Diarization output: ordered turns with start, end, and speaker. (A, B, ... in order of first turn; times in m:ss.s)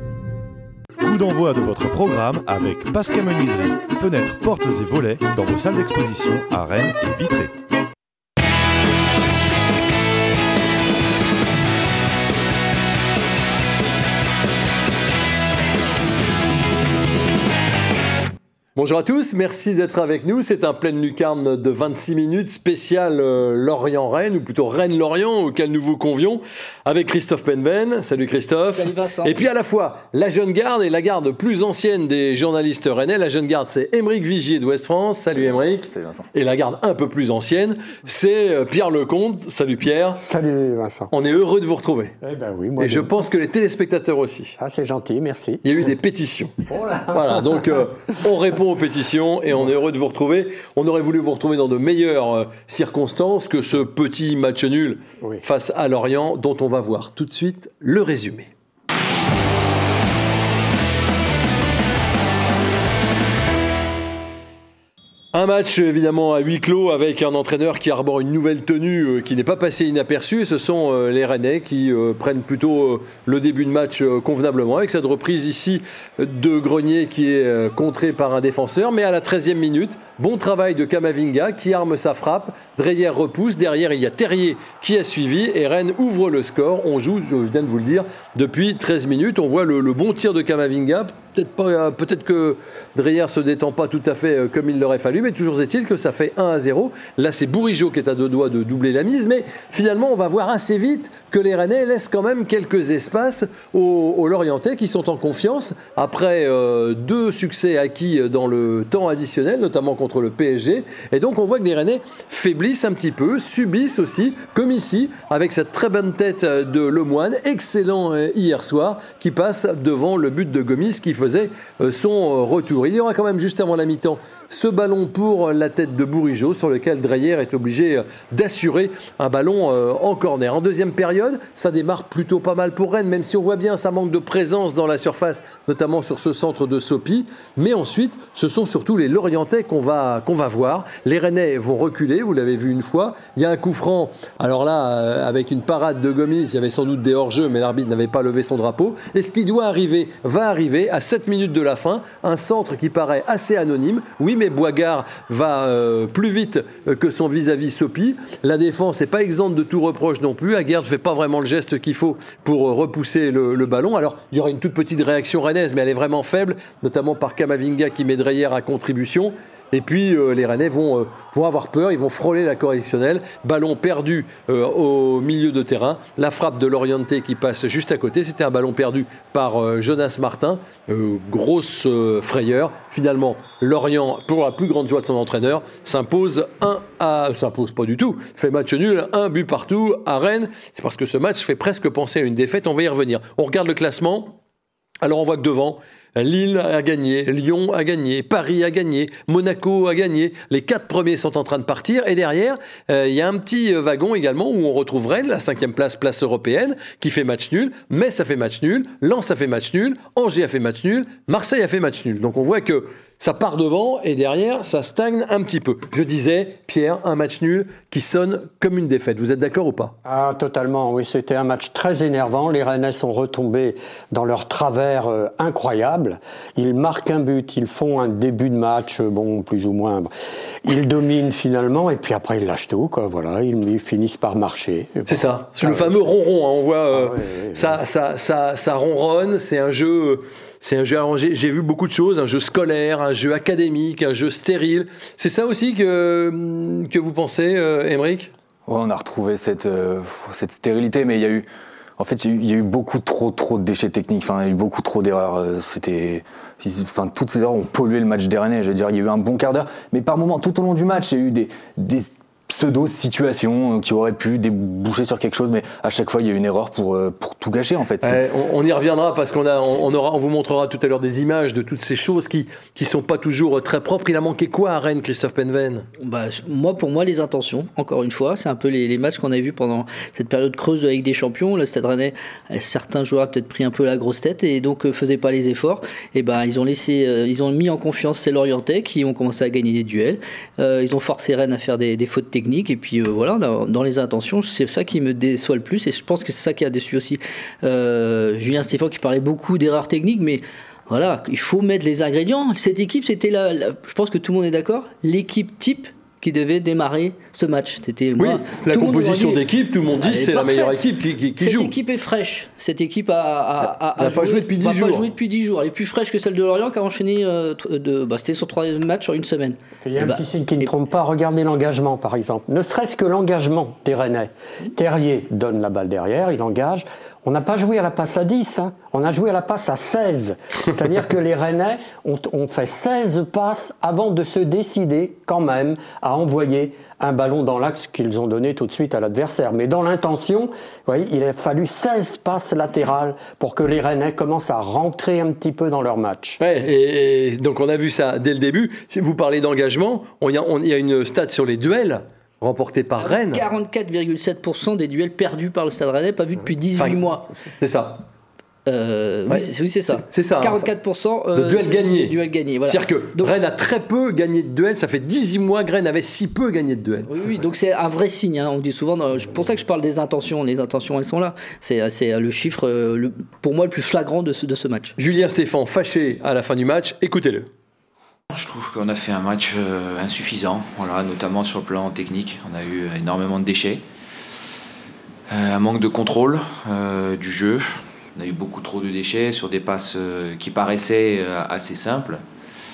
0:01.0-0:07.5 A
0:18.8-0:40.2 B
0:28.7-0:29.4 C
0:35.3-0:36.3 D
0:40.2-0:41.1 E
0:41.1-0:42.2 B
0:42.2-0:43.1 E
0:42.8-0:44.6 B
0:44.6-0:45.8 E
0:45.6-0:46.5 B
0:46.7-0:47.8 E
0:47.1-0:58.5 B
1:05.3-3:14.4 B
3:15.0-3:40.0 B
3:40.0-3:50.1 E
3:50.6-3:56.1 E
3:55.1-4:08.3 B
3:56.9-3:57.8 E
4:08.7-4:11.5 D
4:12.0-4:28.2 D
4:28.0-4:35.9 B
4:36.0-5:09.4 C
5:08.2-5:11.7 B
5:10.0-5:10.8 C
5:11.4-5:20.7 C
5:14.0-5:15.1 B
5:19.8-5:46.4 E
5:46.4-5:53.4 B
5:53.0-5:57.3 C
5:56.8-5:57.0 B
5:57.6-5:58.1 B
5:58.7-6:03.3 C
5:59.3-6:00.7 B
6:01.4-6:07.1 B
6:07.1-6:15.0 C
6:15.0-6:17.5 B
6:18.3-6:23.8 F
6:25.3-6:32.2 F